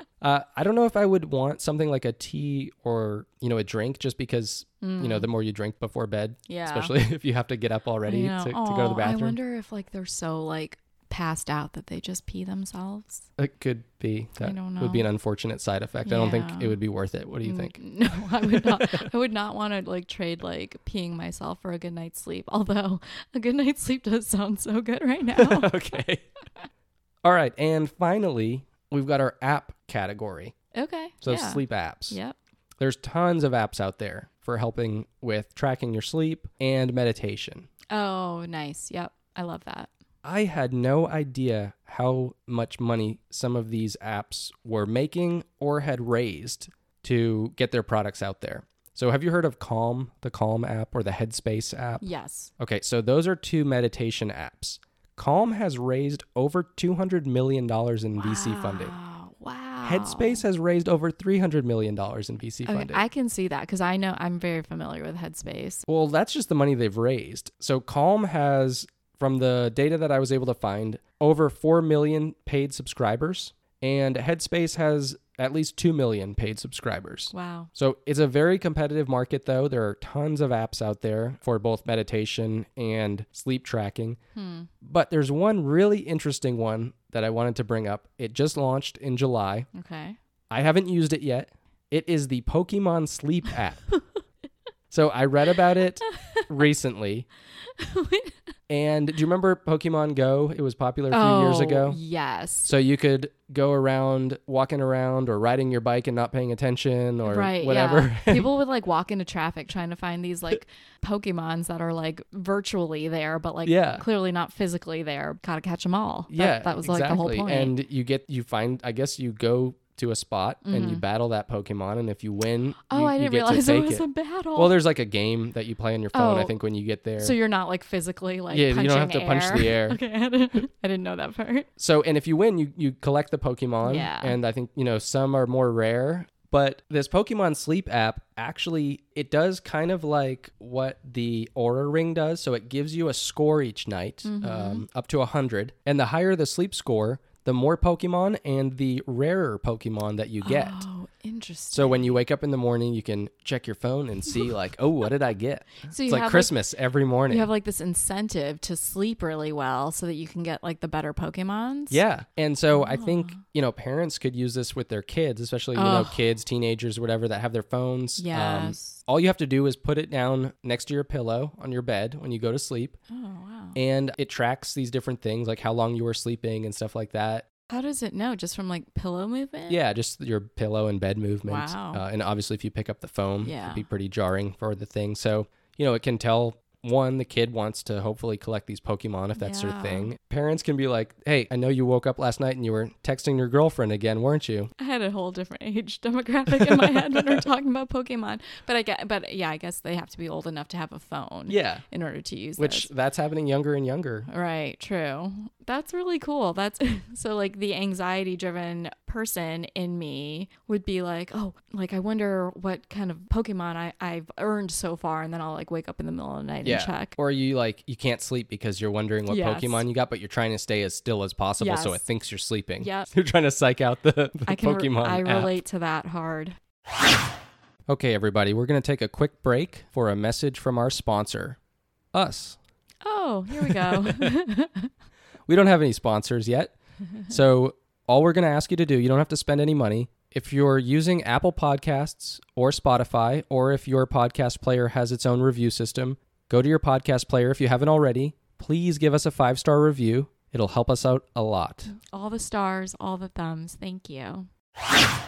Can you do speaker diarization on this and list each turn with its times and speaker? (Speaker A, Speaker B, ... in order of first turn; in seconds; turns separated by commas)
Speaker A: 0.2-9.4, Speaker B: 4.8-5.3, Speaker B: 6.5-6.9, Speaker B: 8.1-13.3, Speaker A: 13.4-19.1, Speaker B: 14.4-15.1, Speaker B: 16.0-16.8, Speaker B: 17.4-25.8, Speaker A: 25.3-26.2, Speaker A: 27.2-30.5, Speaker B: 30.7-32.3, Speaker A: 31.2-32.2, Speaker A: 32.8-37.7, Speaker B: 37.9-39.9, Speaker A: 40.2-52.0, Speaker B: 52.0-52.5, Speaker A: 52.6-58.9, Speaker B: 58.2-60.4, Speaker A: 59.8-63.0, Speaker B: 62.6-65.8, Speaker A: 65.9-84.2, Speaker B: 77.3-77.7, Speaker B: 84.3-84.7, Speaker A: 84.8-89.7, Speaker B: 89.7-90.2, Speaker A: 90.5-93.9, Speaker A: 94.9-97.3, Speaker B: 96.1-96.5, Speaker B: 97.8-98.4, Speaker A: 98.7-102.0, Speaker B: 101.1-102.7, Speaker A: 102.6-108.5, Speaker B: 107.2-117.7, Speaker A: 113.7-114.0, Speaker A: 116.3-127.3, Speaker B: 120.6-121.0, Speaker B: 122.9-124.7, Speaker B: 126.1-126.5, Speaker B: 127.2-131.7, Speaker A: 128.5-130.0, Speaker A: 131.8-150.8, Speaker B: 133.8-134.3, Speaker B: 144.2-144.8, Speaker B: 150.4-152.2, Speaker A: 151.7-157.5, Speaker B: 155.9-156.6, Speaker B: 157.3-162.0, Speaker A: 161.9-173.0, Speaker B: 162.7-163.4, Speaker B: 165.7-166.2, Speaker B: 168.2-169.0, Speaker B: 173.1-173.8, Speaker A: 173.7-177.4, Speaker B: 177.7-179.8, Speaker A: 179.7-194.7, Speaker B: 181.4-182.0, Speaker B: 183.4-183.8, Speaker B: 189.4-190.1, Speaker B: 194.8-202.9, Speaker A: 196.5-197.4, Speaker A: 201.5-201.8, Speaker A: 202.6-204.3, Speaker B: 204.3-217.1, Speaker A: 216.6-225.6, Speaker B: 219.3-219.8, Speaker B: 221.6-222.0, Speaker B: 222.8-223.1, Speaker B: 224.5-226.6, Speaker A: 227.9-231.6, Speaker A: 232.1-232.6, Speaker B: 233.0-234.9, Speaker A: 233.6-234.3, Speaker A: 235.5-236.7, Speaker A: 237.3-251.9, Speaker B: 251.9-254.5